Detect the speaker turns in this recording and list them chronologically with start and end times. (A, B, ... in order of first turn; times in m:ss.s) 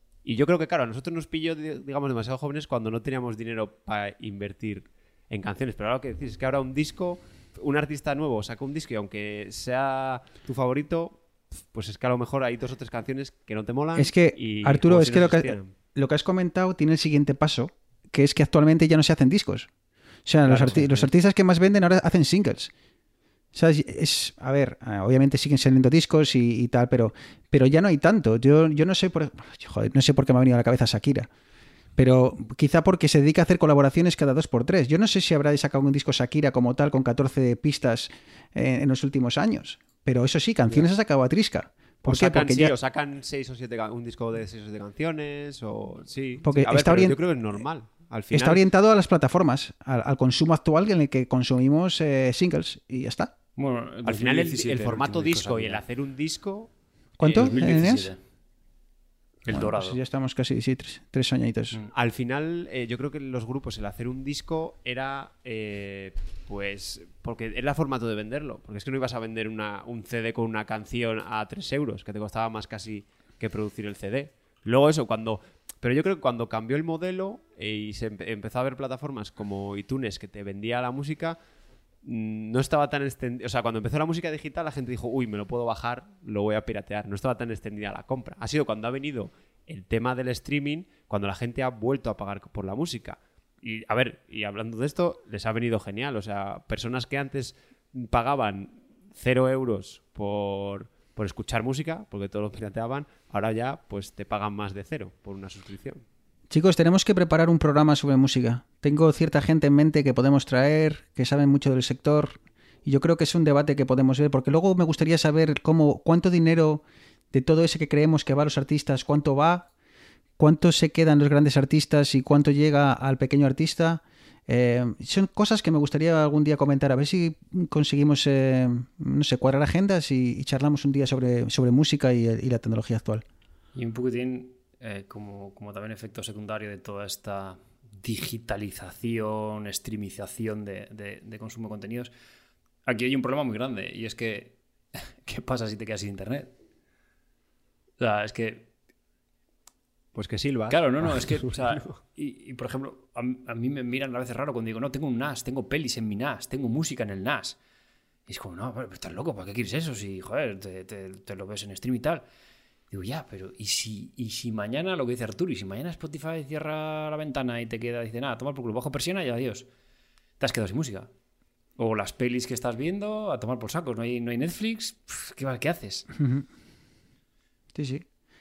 0:00.2-0:15.7 A
0:14.0-0:19.7 B
0:20.2-0:22.7 B
0:20.4-0:21.1 A
0:23.5-0:31.3 B
0:32.0-0:42.8 B
0:42.0-0:48.6 A
0:46.4-0:47.2 B
0:48.3-0:53.3 B
0:53.6-0:55.8 C
0:54.0-0:56.7 A
0:57.2-0:58.1 B
0:57.2-0:58.2 C
0:59.4-1:00.0 C
0:59.5-1:01.8 B
1:01.9-1:21.4 A
1:22.0-1:46.0 A
1:46.5-1:59.7 B
2:00.4-2:13.2 B
2:13.7-2:22.1 C
2:22.8-2:26.5 C
2:28.0-2:28.7 C
2:30.1-2:32.0 A
2:30.7-2:37.6 C
2:38.3-2:42.2 C
2:42.9-2:49.7 C
2:50.4-2:51.1 C
2:51.8-2:56.1 C
2:56.2-2:56.4 B
2:57.7-2:58.0 B